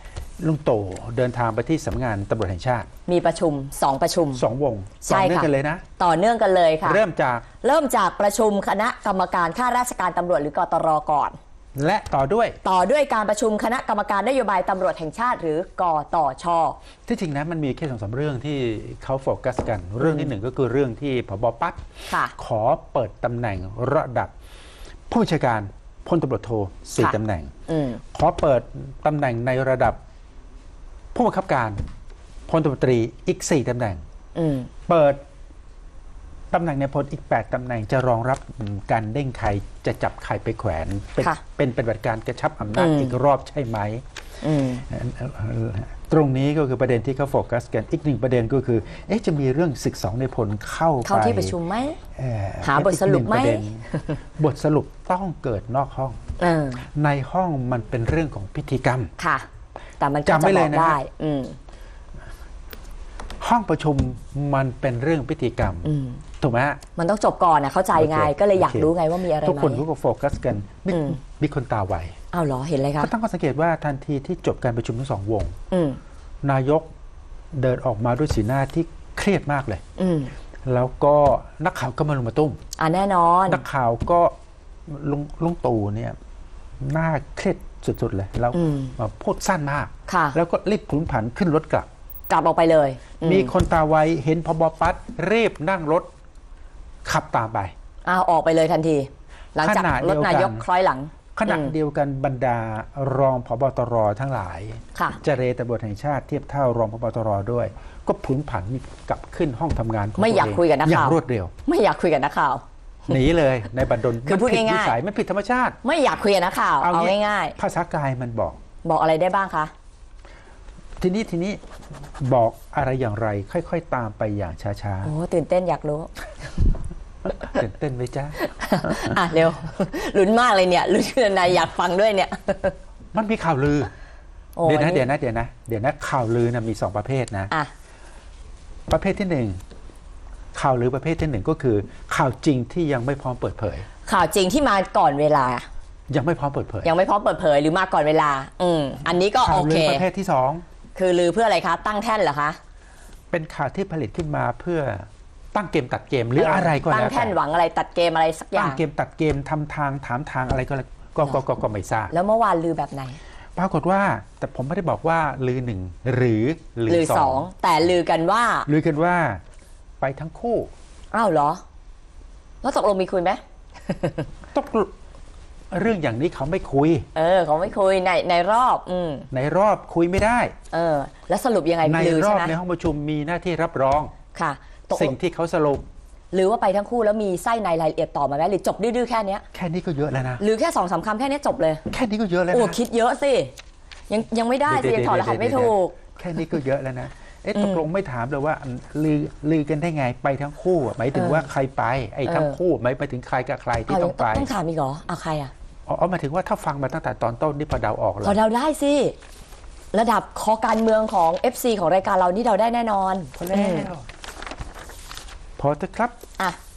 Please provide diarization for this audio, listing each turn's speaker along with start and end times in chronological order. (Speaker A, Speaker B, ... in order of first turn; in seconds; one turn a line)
Speaker A: 0.4-2.9
Speaker B: 3.1-4.4
Speaker A: 4.3-5.8
Speaker B: 5.0-7.0
Speaker A: 6.8-7.5
Speaker B: 7.6-11.4
Speaker A: 11.8-12.6
Speaker B: 12.6-16.8
Speaker A: 17.1-24.3
Speaker B: 20.0-20.3
Speaker A: 25.1-30.0
Speaker B: 27.0-28.0
Speaker A: 31.1-31.8
Speaker A: 32.5-34.0
Speaker B: 34.4-34.7
Speaker A: 34.9-35.2
Speaker A: 36.5-44.0
Speaker B: 42.7-43.2
Speaker B: 44.4-44.8
Speaker A: 44.6-51.5
Speaker B: 51.0-52.0
Speaker A: 52.1-53.9
Speaker B: 52.6-54.2
Speaker A: 54.4-56.2
Speaker B: 56.4-56.9
Speaker A: 56.8-59.1
Speaker B: 59.2-59.5
Speaker B: 60.0-61.6
Speaker A: 60.2-61.0
Speaker A: 63.4-66.8
Speaker B: 65.8-66.2
Speaker B: 67.0-69.8
Speaker A: 68.0-72.2
Speaker B: 70.9-71.2
Speaker B: 72.3-73.1
Speaker A: 73.0-75.5
Speaker B: 75.7-76.0
Speaker A: 76.4-76.9
Speaker A: 77.5-79.8
Speaker B: 80.0-80.3
Speaker A: 80.7-82.6
Speaker B: 82.8-83.6
Speaker A: 83.5-84.3
Speaker A: 84.9-86.2
Speaker A: 86.8-91.9
Speaker B: 88.5-89.0
Speaker B: 90.1-90.4
Speaker B: 92.3-93.5
Speaker A: 93.2-96.1
Speaker A: 97.0-97.7
Speaker B: 98.0-101.7
Speaker A: 99.6-100.7
Speaker A: 101.4-111.5
Speaker B: 110.2-112.6
Speaker A: 113.1-115.8
Speaker B: 114.2-115.0
Speaker B: 115.8-117.6
Speaker A: 116.8-118.6
Speaker B: 118.8-119.7
Speaker A: 121.0-121.6
Speaker A: 122.2-125.1
Speaker B: 125.0-126.7
Speaker A: 127.4-129.2
Speaker B: 128.4-132.8
Speaker A: 133.1-133.9
Speaker B: 134.6-135.1
Speaker A: 134.7-137.5
Speaker A: 138.9-139.6
Speaker A: 140.5-143.9
Speaker B: 144.1-145.7
Speaker A: 146.1-146.9
Speaker B: 146.8-150.1
Speaker A: 149.4-150.6
Speaker B: 150.9-152.6
Speaker A: 153.3-157.4
Speaker B: 156.4-158.8
Speaker A: 158.6-162.1
Speaker B: 162.1-163.2
Speaker A: 163.6-167.5
Speaker B: 166.9-168.7
Speaker A: 168.7-169.4
Speaker A: 170.0-170.7
Speaker B: 171.1-171.6
Speaker B: 172.6-174.3
Speaker A: 174.5-174.9
Speaker A: 175.7-177.1
Speaker B: 177.2-179.3
Speaker A: 179.3-180.5
Speaker B: 180.7-182.5
Speaker A: 181.8-184.1
Speaker B: 184.3-185.2
Speaker A: 184.9-185.8
Speaker B: 186.3-189.4
Speaker A: 189.5-190.4
Speaker B: 190.4-191.8
Speaker A: 191.9-192.8
Speaker B: 192.5-193.5
Speaker B: 194.1-196.0
Speaker A: 194.7-204.5
Speaker B: 197.6-197.8
Speaker B: 201.1-201.5
Speaker B: 202.3-202.6
Speaker B: 203.9-205.5
Speaker A: 205.9-208.4
Speaker B: 208.2-209.2
Speaker B: 209.9-213.9
Speaker A: 213.4-214.1
Speaker A: 215.6-216.2